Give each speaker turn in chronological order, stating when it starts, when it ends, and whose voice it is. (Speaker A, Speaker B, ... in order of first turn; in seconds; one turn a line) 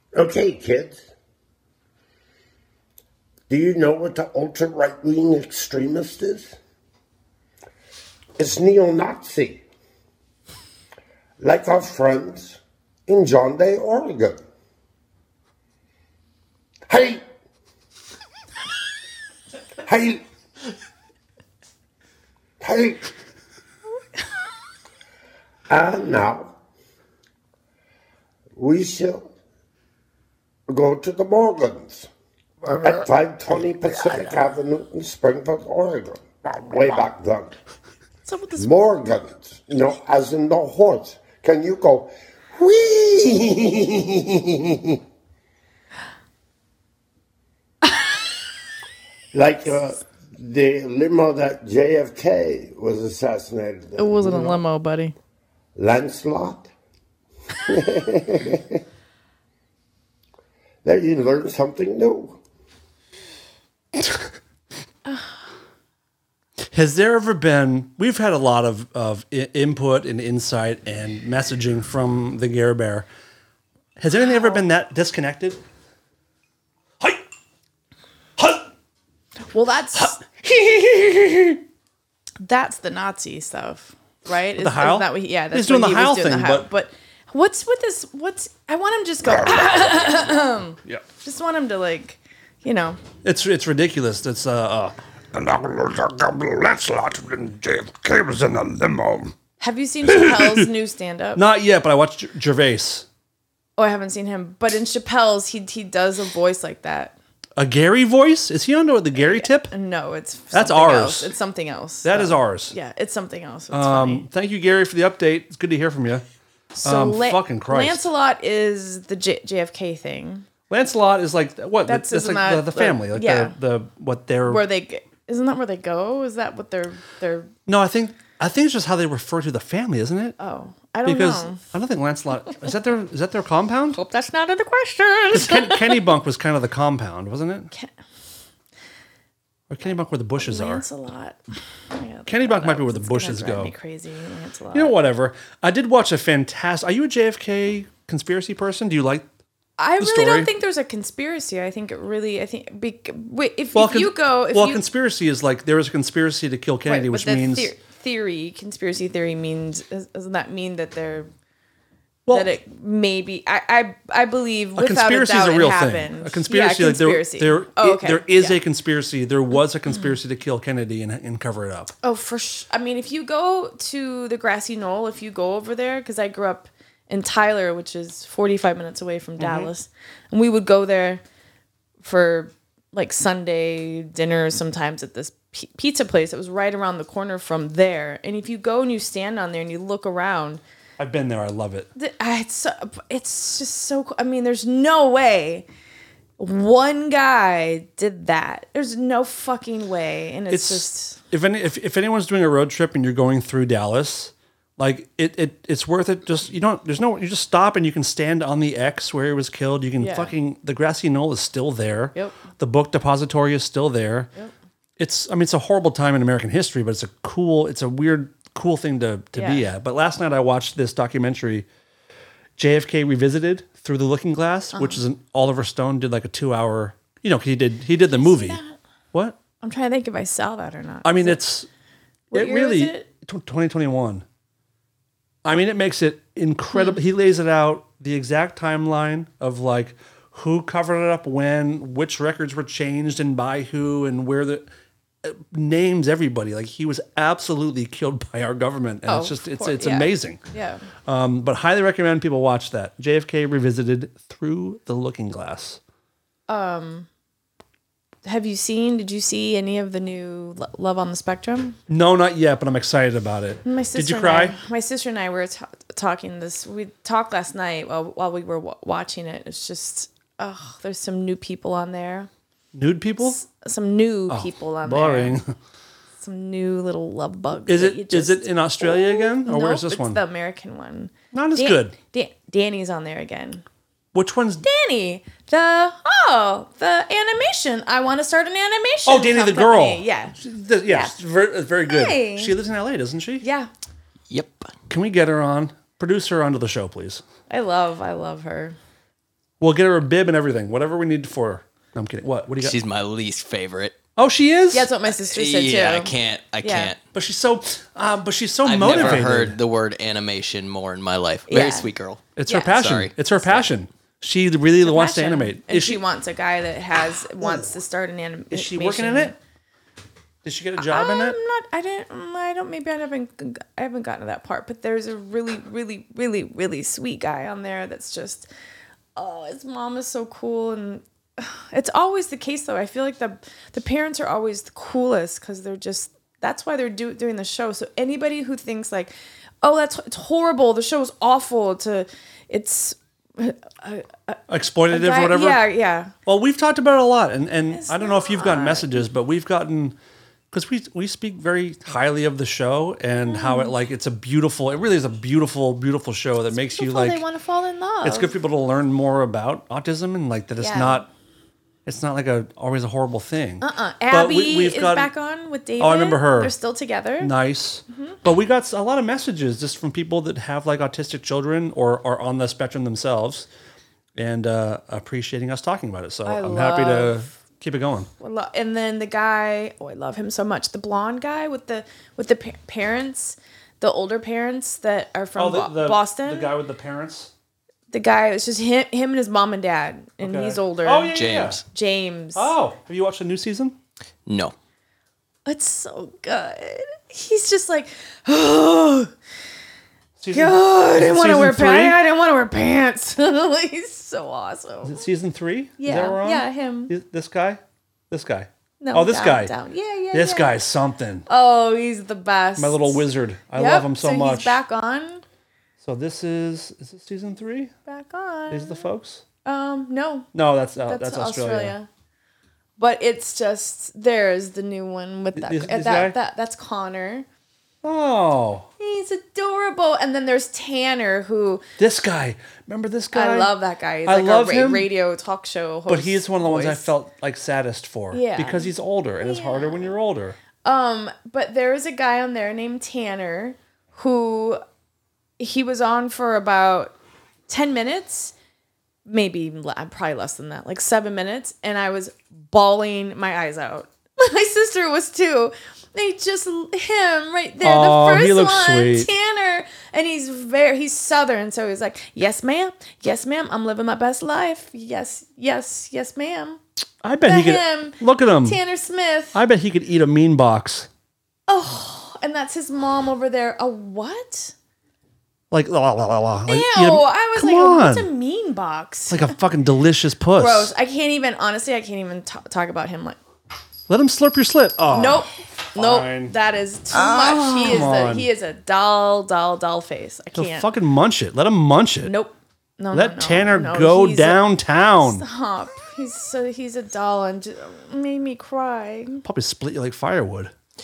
Speaker A: 0.1-1.0
Speaker A: 3.5-6.5
Speaker A: 8.4-9.6
Speaker A: 11.4-14.4
Speaker A: 16.9-17.2
Speaker A: 19.8-20.2
Speaker A: 22.6-23.1
Speaker A: 25.7-26.5
Speaker A: 28.6-29.3
Speaker A: 30.7-32.1
Speaker A: 32.7-37.5
Speaker B: 38.2-38.7
Speaker A: 38.6-45.0
Speaker A: 49.3-54.6
Speaker B: 54.0-55.1
Speaker A: 55.8-56.7
Speaker A: 57.6-58.8
Speaker A: 60.8-62.4
Speaker B: 65.0-65.3
Speaker C: 66.7-73.1
Speaker C: 74.0-75.6
Speaker B: 74.2-74.6
Speaker C: 77.0-77.3
Speaker C: 78.4-78.7
Speaker B: 79.5-80.2
Speaker C: 80.0-81.6
Speaker B: 82.4-93.0
Speaker C: 84.6-86.7
Speaker C: 89.3-90.1
Speaker C: 93.2-99.3
Speaker B: 99.6-101.4
Speaker C: 100.0-100.7
Speaker C: 101.3-103.1
Speaker B: 103.8-107.1
Speaker C: 107.6-109.7
Speaker B: 109.2-114.2
Speaker C: 110.5-111.3
Speaker C: 112.0-112.7
Speaker C: 113.7-116.2
Speaker B: 116.7-120.5
Speaker C: 116.8-118.1
Speaker C: 120.7-124.6
Speaker B: 121.8-123.5
Speaker B: 124.5-127.5
Speaker C: 127.7-130.4
Speaker B: 130.4-131.6
Speaker C: 131.0-134.0
Speaker B: 133.9-136.1
Speaker C: 135.3-137.7
Speaker C: 139.7-140.8
Speaker B: 140.4-141.4
Speaker B: 141.9-144.9
Speaker C: 142.3-143.7
Speaker C: 144.7-149.3
Speaker B: 149.8-154.8
Speaker C: 150.0-150.5
Speaker C: 153.7-157.7
Speaker B: 156.8-161.3
Speaker B: 162.3-168.6
Speaker C: 164.8-171.9
Speaker B: 172.0-181.2
Speaker C: 179.4-179.7
Speaker B: 182.0-190.6
Speaker C: 191.0-191.9
Speaker B: 191.9-195.7
Speaker B: 196.4-201.2
Speaker C: 200.5-214.3
Speaker B: 210.0-210.3
Speaker B: 212.1-212.4
Speaker C: 215.0-221.7
Speaker B: 219.3-219.6
Speaker C: 222.6-228.6
Speaker B: 224.7-225.0
Speaker B: 228.2-228.8
Speaker C: 229.1-229.4
Speaker B: 229.6-231.4
Speaker C: 231.0-231.7
Speaker B: 232.3-233.1
Speaker C: 232.3-234.2
Speaker C: 235.4-244.7
Speaker C: 245.2-250.4
Speaker B: 249.1-250.9
Speaker C: 251.0-255.8
Speaker B: 256.5-257.1
Speaker B: 258.2-261.8
Speaker C: 261.9-264.6
Speaker B: 263.6-272.3
Speaker C: 272.7-273.4
Speaker B: 273.2-275.4
Speaker C: 274.3-275.5
Speaker B: 276.2-283.6
Speaker C: 277.7-280.2
Speaker C: 281.3-281.9
Speaker C: 284.1-284.6
Speaker B: 284.6-291.1
Speaker C: 289.1-293.4
Speaker B: 291.9-292.6
Speaker B: 293.4-293.7
Speaker D: 294.3-294.7
Speaker C: 294.9-297.2
Speaker B: 297.5-298.8
Speaker C: 299.6-302.8
Speaker D: 302.6-304.0
Speaker C: 304.1-304.9
Speaker B: 304.7-306.9
Speaker D: 305.1-307.0
Speaker C: 307.1-309.6
Speaker D: 308.6-313.6
Speaker B: 311.5-311.9
Speaker C: 312.4-316.0
Speaker B: 312.5-312.8
Speaker B: 314.8-319.4
Speaker C: 317.4-317.8
Speaker C: 318.5-319.4
Speaker C: 320.4-321.4
Speaker B: 320.8-328.5
Speaker B: 329.1-346.1
Speaker C: 344.5-345.6
Speaker C: 346.2-349.9
Speaker B: 347.7-349.0
Speaker C: 350.5-357.2
Speaker B: 353.3-353.7
Speaker B: 356.5-358.3
Speaker C: 358.0-361.1
Speaker B: 360.6-361.1
Speaker C: 361.9-365.1
Speaker B: 363.6-367.3
Speaker C: 365.8-366.5
Speaker C: 367.2-373.5
Speaker B: 367.9-368.1
Speaker C: 374.1-378.1
Speaker B: 376.2-377.3
Speaker B: 378.2-386.5
Speaker C: 385.4-387.3
Speaker B: 387.9-392.5
Speaker C: 390.2-391.6
Speaker D: 391.1-391.6
Speaker C: 392.3-393.8
Speaker D: 394.2-394.5
Speaker B: 395.4-399.1
Speaker C: 400.2-402.0
Speaker B: 400.3-405.0
Speaker C: 404.8-409.5
Speaker B: 405.8-406.9
Speaker B: 408.8-410.6
Speaker C: 410.1-411.3
Speaker B: 411.3-415.2
Speaker C: 412.6-414.6
Speaker C: 415.8-417.7
Speaker B: 417.9-418.9
Speaker C: 418.5-419.2
Speaker B: 419.4-420.3
Speaker C: 420.3-421.7
Speaker B: 420.8-421.9
Speaker B: 422.8-427.2
Speaker C: 425.4-426.1
Speaker C: 427.8-428.7
Speaker B: 428.8-431.6
Speaker C: 431.8-434.9
Speaker B: 433.1-436.9
Speaker C: 435.9-440.4
Speaker B: 438.1-439.9
Speaker B: 440.6-444.6
Speaker B: 445.4-446.9
Speaker B: 447.5-448.3
Speaker B: 449.1-466.6
Speaker C: 457.6-459.1
Speaker C: 467.0-468.6
Speaker B: 467.2-469.4
Speaker C: 469.3-470.9
Speaker B: 471.5-474.5
Speaker C: 475.5-478.1
Speaker B: 476.5-479.3
Speaker C: 479.1-480.7
Speaker B: 480.3-483.2
Speaker C: 483.9-486.3
Speaker B: 484.9-490.7
Speaker C: 486.9-488.3
Speaker C: 490.3-492.1
Speaker B: 492.0-494.4
Speaker C: 492.9-495.2
Speaker B: 495.0-499.2
Speaker C: 499.2-500.5